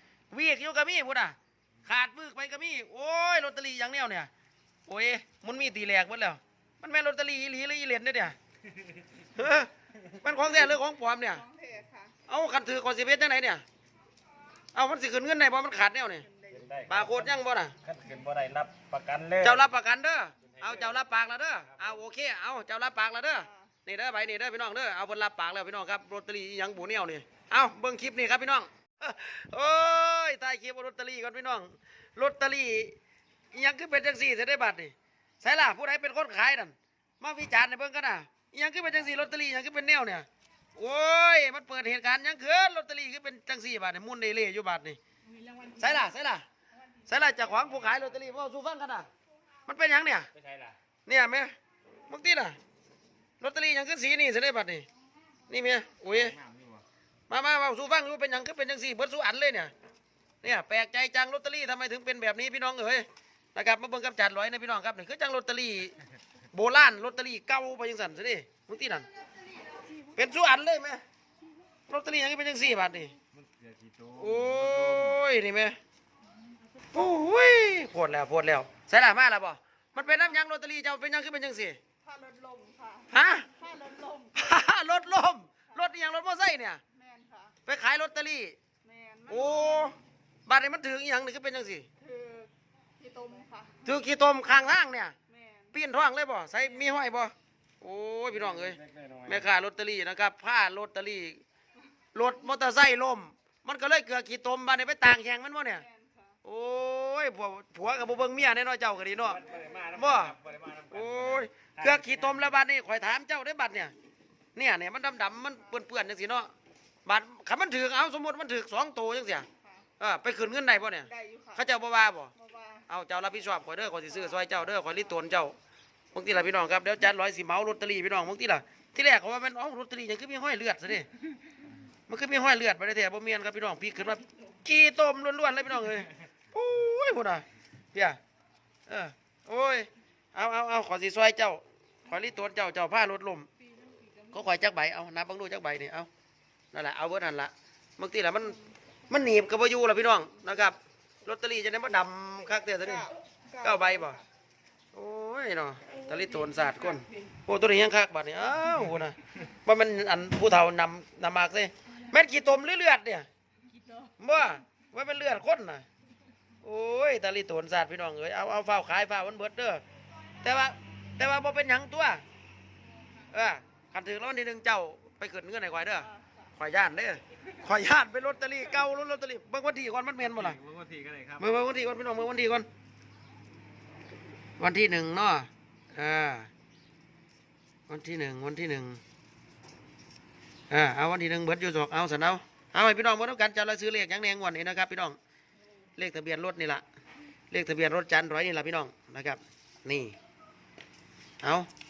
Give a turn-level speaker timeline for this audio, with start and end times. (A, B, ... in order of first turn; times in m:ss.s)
0:00.3-0:04.3 A
0:04.9-0:08.4 A
0:09.4-0:11.4 A
0:11.4-0:12.1 B
0:12.3-0:13.6 A
0:14.8-0:16.3 A
0:16.3-0:16.6 B
0:16.5-0:19.7 C
0:16.9-0:17.8 A
0:19.4-0:33.0 A
0:20.4-0:21.0 C
0:21.7-0:22.0 C
0:33.5-0:45.0 A
0:45.7-0:46.4 A
0:47.1-0:49.1 A
0:47.6-0:48.3 C
0:49.7-0:50.3 A
0:50.3-0:50.8 C
0:51.1-0:51.5 A
0:52.1-0:52.6 A
0:53.4-0:54.9 A
0:55.5-0:56.4 A
0:56.1-0:56.8 C
0:57.3-0:59.7 A
1:00.4-1:06.0 A
1:06.5-1:09.1 A
1:10.1-1:11.0 A
1:11.9-1:13.2 A
1:13.3-1:15.2 C
1:14.2-1:15.8 A
1:16.9-1:21.8 A
1:22.0-1:24.4 B
1:23.1-1:23.5 A
1:24.4-1:26.8 A
1:26.9-1:27.6 B
1:27.6-1:28.6 A
1:28.8-1:29.9 B
1:29.3-1:31.9 A
1:32.0-1:33.8 B
1:33.8-1:35.1 A
1:35.3-1:35.7 B
1:35.7-1:41.4 A
1:38.3-1:39.5 C
1:42.1-1:45.8 A
1:45.8-1:46.3 B
1:46.4-1:49.4 A
1:49.2-1:52.5 C
1:49.9-1:50.4 A
1:50.9-1:53.9 A
1:54.6-1:56.5 A
1:57.0-1:59.5 A
2:00.0-2:02.3 A
2:01.1-2:01.6 B
2:02.4-2:02.8 B
2:02.9-2:05.6 A
2:06.1-2:11.1 A
2:12.1-2:18.2 A
2:18.9-2:23.5 A
2:23.8-2:24.3 B
2:24.3-2:26.1 A
2:26.7-2:34.2 A
2:32.8-2:34.2 B
2:34.9-2:43.3 A
2:44.2-2:45.8 A
2:46.6-2:49.8 A
2:50.4-2:52.2 A
2:53.3-3:00.6 A
3:00.3-3:01.5 C
3:01.4-3:02.7 A
3:04.6-3:06.5 A
3:07.9-3:09.0 A
3:10.7-3:15.2 A
3:16.0-3:16.8 A
3:17.5-3:20.2 A
3:21.4-3:21.7 A